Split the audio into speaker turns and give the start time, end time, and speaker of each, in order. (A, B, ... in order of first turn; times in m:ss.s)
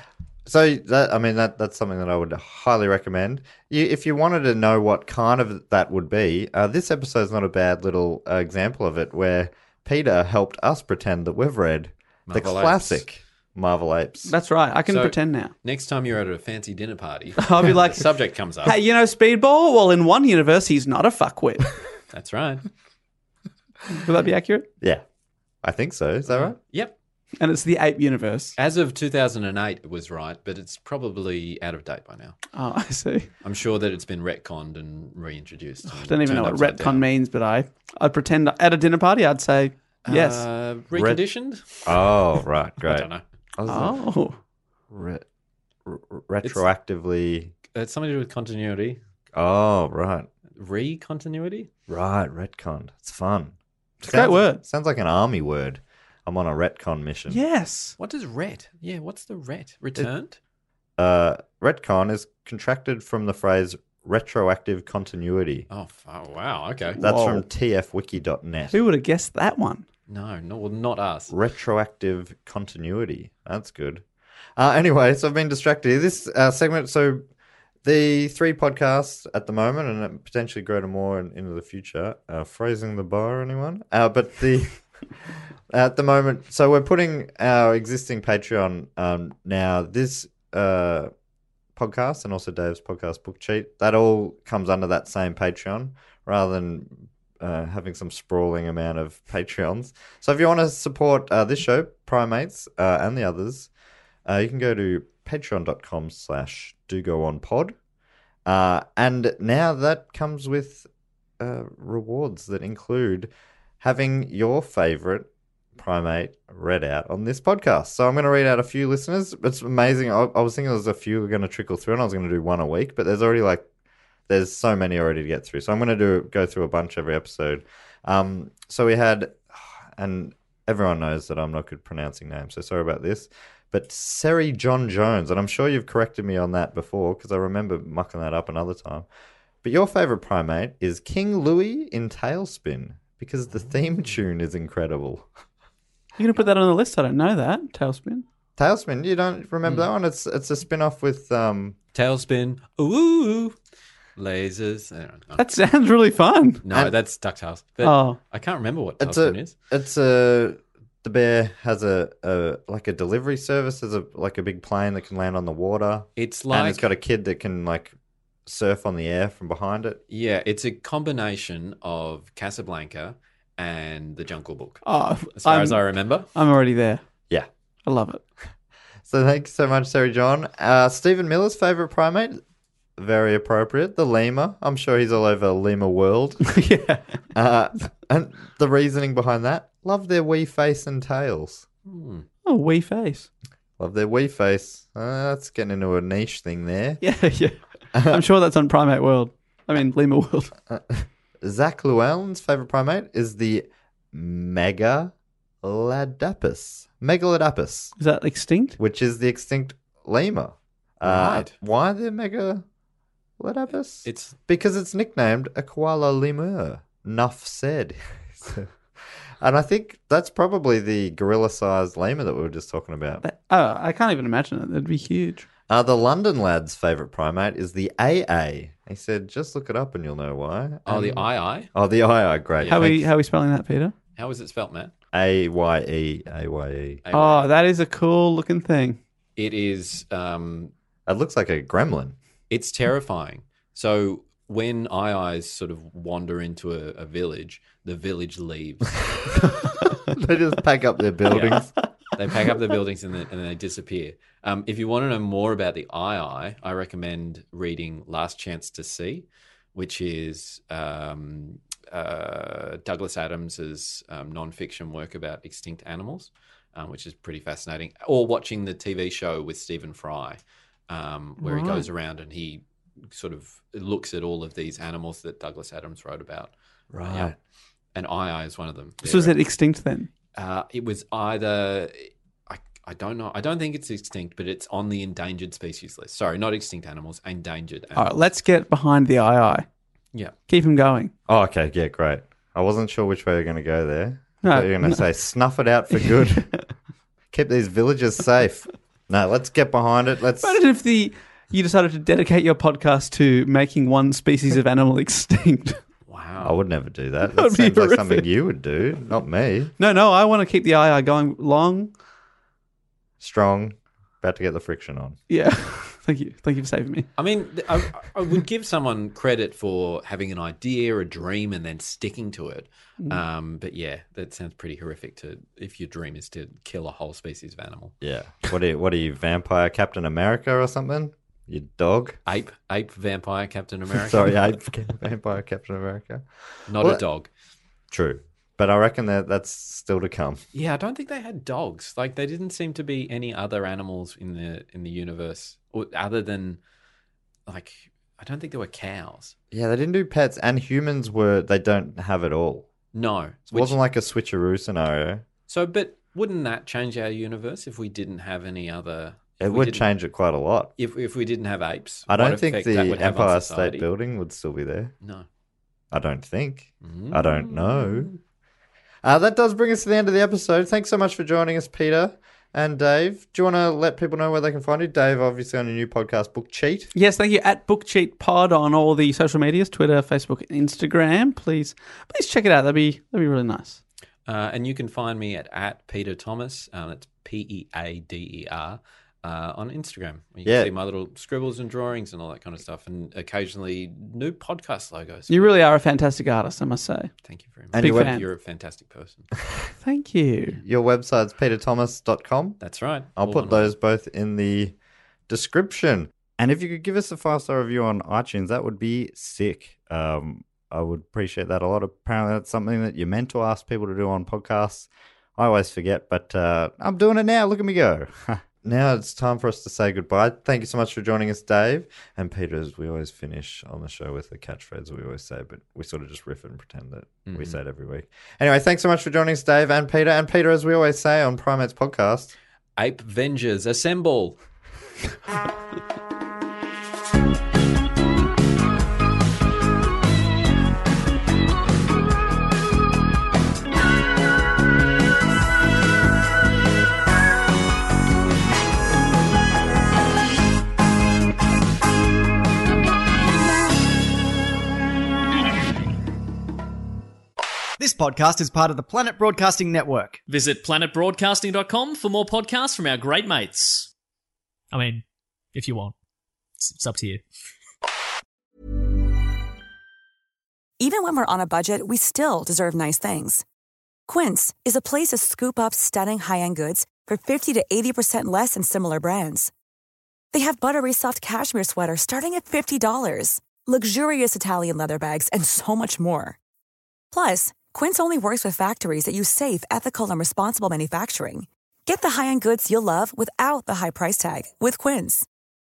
0:00.5-0:14.3 A
0:12.3-0:13.0 B
0:14.3-0:15.5 C
0:14.9-0:18.8 B
0:17.4-0:18.1 C
0:18.6-0:21.8 C
0:22.1-0:22.7 B
0:23.9-0:24.7 C
0:25.6-0:26.6 A
0:26.3-0:27.0 B
0:27.4-0:28.6 C
0:28.6-0:32.4 B
0:32.5-0:33.3 C
0:33.4-0:37.0 B
0:35.9-0:40.4 C
0:40.0-0:42.2 B
0:40.9-0:44.0 A
0:42.8-0:43.2 B
0:43.7-0:44.4 C
0:44.9-0:45.2 A
0:45.9-0:47.5 A
0:47.7-0:49.0 B
0:49.3-0:50.3 A
0:50.6-0:51.7 B
0:51.9-0:57.4 A
0:54.0-0:54.6 C
0:57.3-0:58.0 C
0:58.0-1:00.4 B
1:01.0-1:05.7 A
1:05.7-1:07.0 B
1:07.0-1:07.4 C
1:07.0-1:08.8 A
1:08.7-1:09.8 C
1:10.1-1:11.3 B
1:11.3-1:14.0 A
1:14.6-1:17.2 A
1:17.8-1:31.1 A
1:31.8-1:43.7 A
1:44.3-1:47.8 A
1:48.4-1:50.9 A
1:51.4-2:03.7 A
2:04.3-2:19.1 A
2:19.6-2:25.3 A
2:26.2-2:28.2 C
2:28.6-2:31.8 A
2:31.9-2:33.6 B
2:34.2-2:35.5 B
2:35.4-2:36.6 C
2:36.6-2:39.5 B
2:37.8-2:38.2 C
2:39.0-2:48.0 A
2:46.2-2:46.9 B
2:48.5-2:50.0 A
2:50.1-2:54.8 B
2:54.8-2:57.0 C
2:55.4-2:56.3 B
2:57.8-2:58.2 C
2:59.1-3:02.4 A
3:03.0-3:06.6 A
3:06.5-3:07.2 C
3:07.3-3:11.6 A
3:11.9-3:12.3 B
3:12.4-3:13.3 C
3:13.8-3:17.0 A
3:17.0-3:20.5 C
3:17.9-3:18.3 A
3:20.7-3:28.0 A
3:28.0-3:28.8 C
3:28.8-3:32.6 A
3:31.0-3:31.6 B
3:33.4-3:38.7 A
3:34.0-3:34.4 B
3:39.4-3:43.2 A
3:43.2-3:45.5 C
3:45.7-3:53.1 A
3:50.9-3:51.7 B
3:52.6-3:52.9 B
3:52.7-3:54.0 C
3:54.2-3:54.9 B
3:55.1-3:57.0 A
3:57.0-3:57.5 B
3:57.1-3:59.0 C
3:59.4-4:00.7 B
4:01.1-4:02.2 A
4:02.5-4:09.5 B
4:10.0-4:11.7 A
4:11.3-4:36.5 B
4:31.4-4:31.9 C
4:36.9-4:37.4 A
4:37.1-4:37.3 B
4:38.0-4:39.4 B
4:39.0-4:40.1 C
4:40.4-4:48.1 B
4:48.0-4:49.7 C
4:50.5-4:51.1 C
4:51.3-4:56.6 A
4:54.4-4:55.0 C
4:57.3-5:00.6 A
5:00.4-5:05.8 C
5:06.1-5:06.6 B
5:06.4-5:09.7 A
5:07.3-5:08.3 C
5:09.8-5:11.9 C
5:13.2-5:15.2 A
5:15.3-5:17.1 C
5:17.2-5:28.0 B
5:28.0-5:32.2 A
5:32.3-5:34.4 B
5:34.0-5:37.0 A
5:36.7-5:37.3 B
5:37.9-5:40.4 A
5:40.5-5:46.6 B
5:47.5-5:49.4 B
5:49.5-5:52.7 A
5:52.9-5:53.8 B
5:53.5-5:55.2 A
5:55.5-5:59.9 B
5:59.4-6:00.7 A
6:00.8-6:03.9 B
6:02.1-6:04.9 A
6:05.9-6:08.1 A
6:06.8-6:08.2 B
6:09.0-6:16.9 A
6:16.9-6:23.8 C
6:24.3-6:35.6 B
6:30.4-6:30.7 A
6:35.3-6:37.1 C
6:37.2-6:39.3 B
6:37.7-6:38.2 A
6:37.8-6:38.2 C
6:39.8-6:40.6 C
6:40.6-6:42.6 A
6:42.6-6:43.7 B
6:43.2-6:44.8 A
6:45.3-7:12.3 A
7:07.3-7:07.6 B
7:12.8-7:14.4 B
7:37.8-7:40.2 D
7:40.3-7:43.9 E
7:44.7-7:45.9 E
7:46.6-7:47.2 E
7:50.8-7:53.4 F
7:54.1-7:59.5 F
8:00.3-8:06.4 F
8:07.1-8:15.3 F